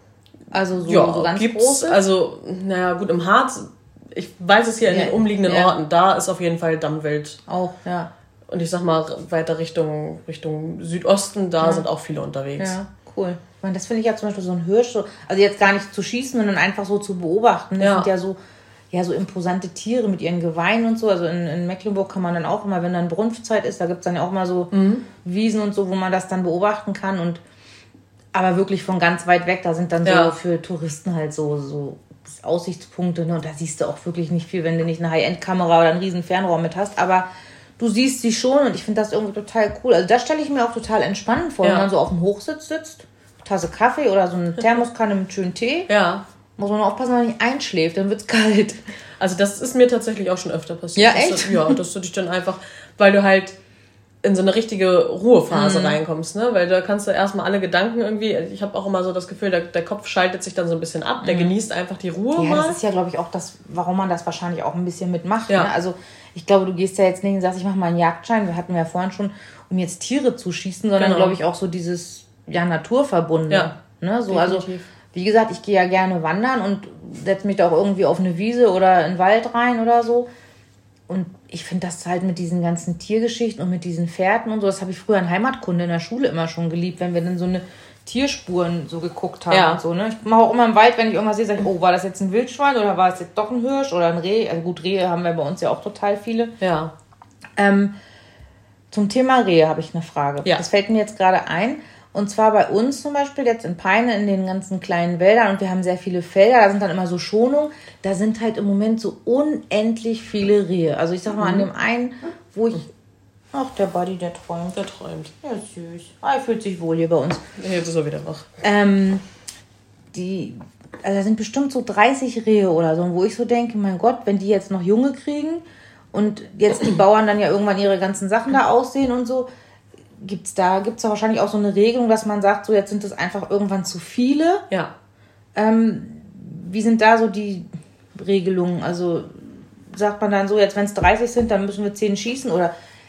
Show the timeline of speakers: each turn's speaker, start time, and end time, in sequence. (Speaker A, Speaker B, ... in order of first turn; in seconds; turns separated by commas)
Speaker A: 0.5-2.0, Speaker B: 0.8-7.4, Speaker A: 4.8-5.7, Speaker A: 7.5-8.1, Speaker B: 8.5-12.8, Speaker A: 11.6-11.9, Speaker A: 12.6-18.4, Speaker B: 17.8-18.1, Speaker A: 18.9-27.4, Speaker B: 24.7-25.0, Speaker A: 28.3-37.3, Speaker B: 30.0-30.3, Speaker A: 37.8-45.9, Speaker B: 41.6-41.9, Speaker B: 45.9-46.2, Speaker A: 46.6-48.8, Speaker B: 49.2-53.6, Speaker A: 51.0-51.8, Speaker B: 54.2-62.8, Speaker A: 55.5-56.0, Speaker A: 61.2-61.5, Speaker A: 62.3-80.3, Speaker B: 71.0-71.4, Speaker B: 74.3-74.9, Speaker A: 81.1-96.5, Speaker B: 89.5-89.8, Speaker B: 96.6-96.9, Speaker A: 97.6-97.9, Speaker A: 98.9-112.9, Speaker B: 111.4-111.7, Speaker A: 113.5-114.8, Speaker B: 114.7-115.3, Speaker A: 115.4-117.4, Speaker B: 117.6-118.5, Speaker A: 118.6-119.2, Speaker A: 120.1-129.5, Speaker A: 130.2-134.6, Speaker A: 135.5-142.7